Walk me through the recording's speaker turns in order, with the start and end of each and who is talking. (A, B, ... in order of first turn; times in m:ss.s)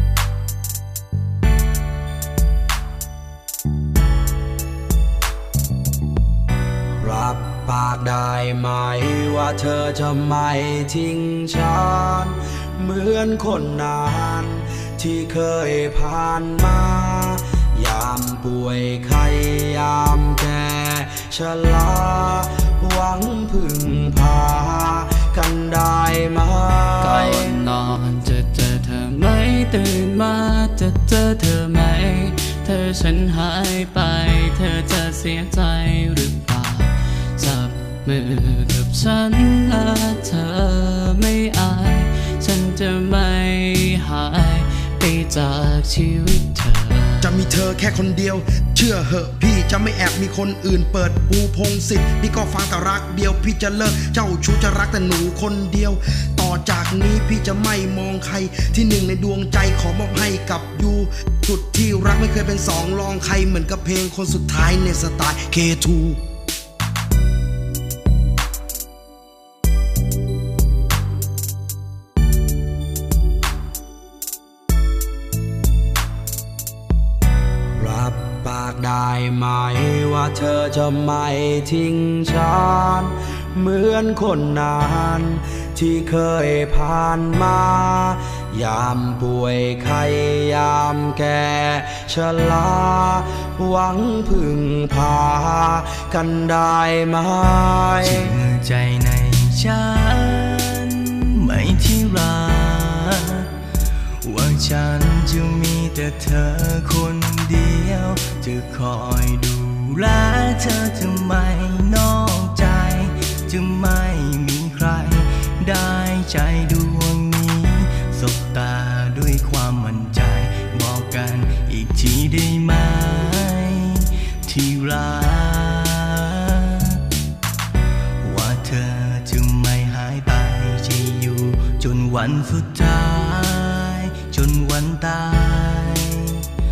0:07.0-0:27.5 A
0:27.0-0:47.4 B
0:47.2-1:02.4 C
0:47.7-0:48.4 A
0:49.0-0:49.7 A
0:50.4-1:00.0 A
1:00.6-1:01.1 A
1:01.7-1:06.2 A
1:02.9-1:06.1 C
1:17.7-1:38.3 A
1:38.0-1:43.5 D
1:44.2-2:07.0 D
2:08.2-2:16.5 D